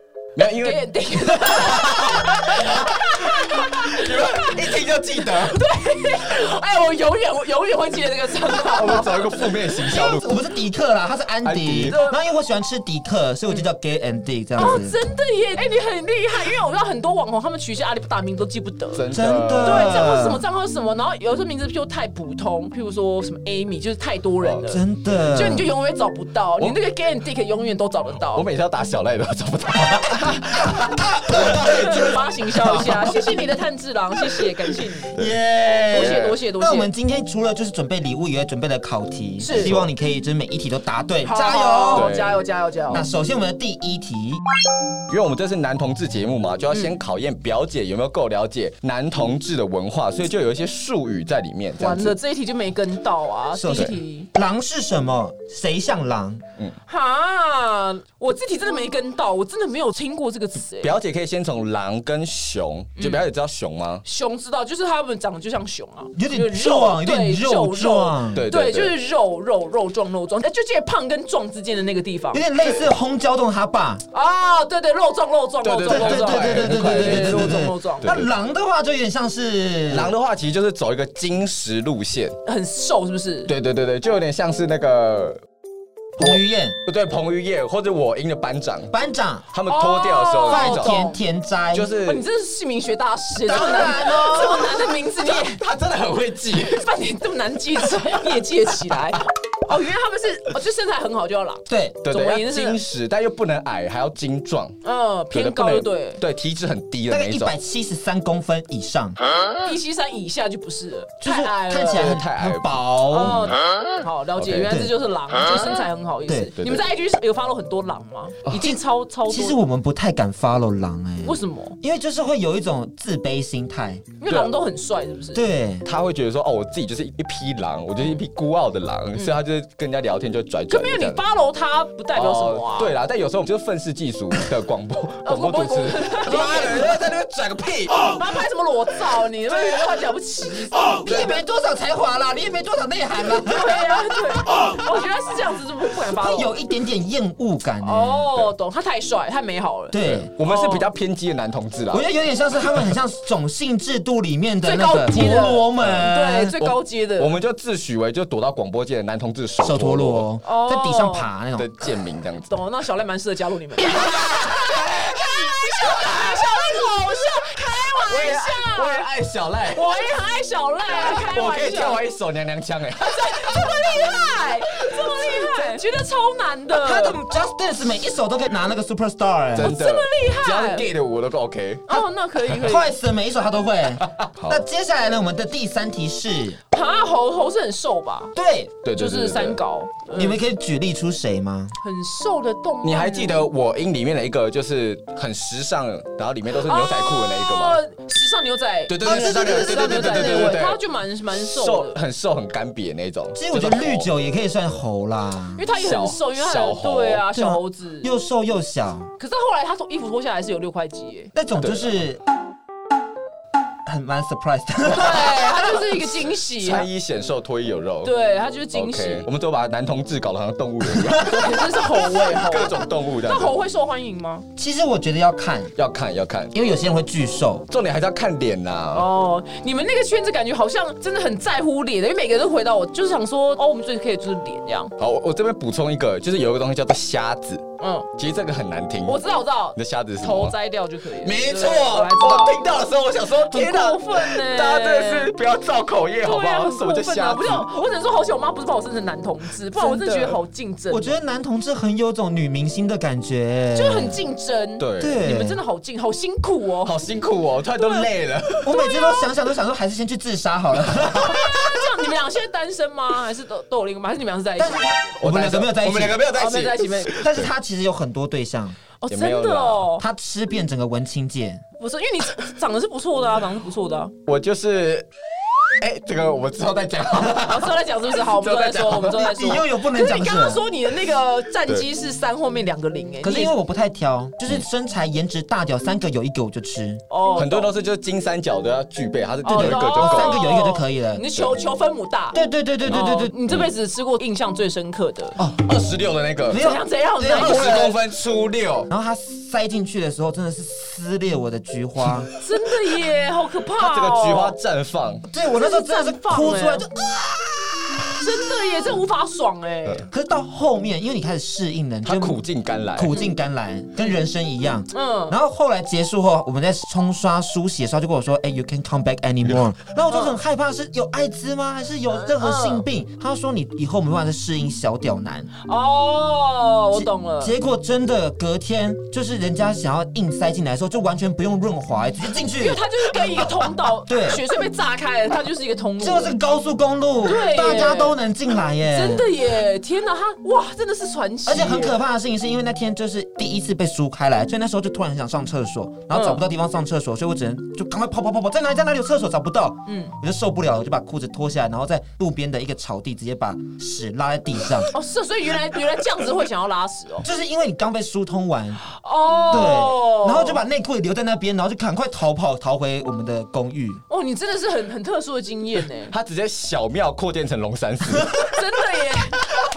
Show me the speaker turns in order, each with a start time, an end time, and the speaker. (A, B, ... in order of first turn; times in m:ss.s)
0:00.4-0:05.6 A
0:00.6-0:04.7 B
0:05.3-0:09.6 B
0:08.5-0:10.4 A
0:09.9-0:14.9 C
0:11.4-0:12.0 A
0:11.9-0:12.2 B
0:14.6-0:19.0 B
0:18.9-0:20.0 A
0:19.1-0:20.4 C
0:19.6-0:28.4 B
0:24.7-0:25.7 C
0:28.3-0:32.1 A
0:30.2-0:30.7 B
0:30.9-0:33.1 C
0:31.3-0:35.2 B
0:35.1-0:36.4 A
0:35.2-0:42.1 C
0:35.9-0:36.9 B
0:39.4-0:39.8 B
0:39.5-0:39.8 A
0:41.2-0:43.0 B
0:41.9-0:42.4 A
0:42.9-0:44.4 C
0:45.1-0:52.2 A
0:51.8-0:54.3 B
0:53.5-0:56.4 C
0:56.9-1:01.0 B
1:00.8-1:04.0 A
1:03.0-1:03.2 B
1:04.0-1:12.4 B
1:06.1-1:08.5 C
1:08.3-1:08.9 A
1:12.3-1:14.0 C
1:14.1-1:18.1 B
1:15.6-1:18.3 A
1:15.9-1:20.1 C
1:19.9-1:22.4 A
1:22.4-1:23.5 B
1:23.5-1:25.4 A
1:26.2-1:26.8 C
1:26.2-1:28.9 A
1:28.9-1:29.5 C
1:29.5-1:31.1 A
1:29.7-1:31.2 B
1:30.4-1:31.9 C
1:31.7-1:32.2 A
1:32.0-1:35.6 B
1:33.4-1:34.8 C
1:35.2-1:36.8 A
1:36.6-1:42.8 B
1:41.7-1:42.0 C
1:42.0-1:44.8 A
1:44.8-1:46.2 B
1:45.3-1:47.5 A
1:47.1-1:49.2 C
1:49.6-1:52.1 B
1:51.2-1:53.4 C
1:51.9-1:53.6 A
1:53.1-1:59.6 B
1:54.4-1:54.8 A
1:56.6-1:56.8 A
1:58.5-2:04.1 C
2:01.2-2:01.8 B
2:04.2-2:05.4 B
2:04.3-2:04.6 A
2:05.3-2:05.9 C
2:05.8-2:11.2 A
2:10.7-2:12.9 B
2:12.1-2:18.2 A
2:15.2-2:16.9 B
2:18.1-2:21.3 B
2:19.5-2:20.0 A
2:20.9-2:21.3 A
2:21.0-2:23.9 C
2:23.4-2:26.5 B
2:26.2-2:28.5 C
2:27.8-2:30.9 B
2:29.9-2:30.3 C
2:30.0-2:32.1 A
2:31.9-2:36.5 C
2:34.6-2:37.3 B
2:35.8-2:40.2 A
2:39.6-2:41.7 C
2:40.4-2:41.3 B
2:41.6-2:42.5 A
2:42.5-2:49.1 B
2:43.9-2:46.8 A
2:47.7-2:49.9 A
2:49.7-2:52.0 B
2:50.9-2:54.2 A
2:53.0-2:57.2 B
2:54.8-2:55.8 A
2:56.7-2:59.8 C
2:59.6-3:02.0 A
2:59.6-3:00.9 B
3:01.9-3:02.9 B
3:02.6-3:06.6 C
3:04.0-3:04.6 A
3:06.7-3:08.3 B
3:08.4-3:08.8 C
3:08.8-3:09.6 A
3:08.9-3:10.4 B
3:10.1-3:11.8 C
3:11.8-3:13.5 B
3:12.8-3:17.8 A
3:16.6-3:22.0 B
3:18.9-3:20.8 A
3:19.0-3:20.6 C
3:21.3-3:24.1 A
3:23.4-3:25.6 C
3:25.6-3:28.1 B
3:25.8-3:27.2 A
3:27.3-3:29.1 C
3:29.2-3:31.3 B
3:31.3-3:32.2 C
3:31.6-3:32.0 A
3:33.9-3:35.9 C
3:34.8-3:36.9 B
3:36.6-3:38.1 A
3:38.0-3:39.3 B
3:38.7-3:43.6 A
3:41.0-3:41.4 C
3:41.2-3:44.4 B
3:44.6-3:45.7 C
3:45.8-3:46.6 A
3:46.5-3:47.7 C
3:47.7-3:49.1 A
3:48.9-3:54.9 B
3:55.0-3:59.2 A
3:57.8-3:58.1 B
3:59.1-4:02.7 B
3:59.8-4:00.6 A
4:01.2-4:07.7 A
4:03.5-4:05.3 B
4:06.2-4:11.2 B
4:09.8-4:10.4 A
4:10.9-4:14.2 C
4:13.7-4:17.0 B
4:14.8-4:15.2 A
4:15.0-4:15.6 C
4:16.8-4:18.8 A
4:18.6-4:21.7 C
4:21.2-4:24.9 B
4:24.6-4:26.3 C
4:25.2-4:27.5 A
4:26.3-4:27.1 B
4:27.1-4:28.8 C
4:29.0-4:30.0 B
4:29.1-4:29.9 A
4:30.0-4:31.6 C
4:31.8-4:34.1 B
4:34.3-4:35.1 A
4:35.8-4:39.4 A
4:37.3-4:43.5 B
4:39.0-4:40.6 C
4:43.2-4:47.0 C
4:47.1-4:47.7 B
4:47.4-4:50.4 A
4:49.4-4:55.4 B
4:49.5-4:51.3 C
4:52.3-4:53.4 C
4:55.4-4:56.6 A
4:56.5-4:58.0 C
4:56.5-4:57.9 B
4:57.3-4:58.9 A
4:58.9-5:02.3 C
5:02.4-5:04.6 B
5:03.8-5:05.3 A
5:05.3-5:08.2 C
5:05.5-5:06.8 B
5:08.2-5:10.1 B
5:10.1-5:12.4 C
5:12.0-5:13.2 A
5:12.9-5:25.5 C
5:14.9-5:15.4 B
5:20.1-5:20.4 B
5:22.2-5:22.8 B
5:25.6-5:27.5 B
5:26.9-5:34.4 C
5:32.5-5:36.4 B
5:36.0-5:39.3 C
5:37.2-5:38.2 B
5:38.9-5:42.0 B
5:41.4-5:54.9 C
5:46.1-5:46.4 B
5:49.8-5:50.1 B
5:54.9-5:57.3 B
5:57.2-5:58.8 C
5:58.8-6:00.6 B
5:59.5-6:04.0 C
6:04.1-6:06.1 B
6:06.1-6:08.6 A
6:08.4-6:09.5 B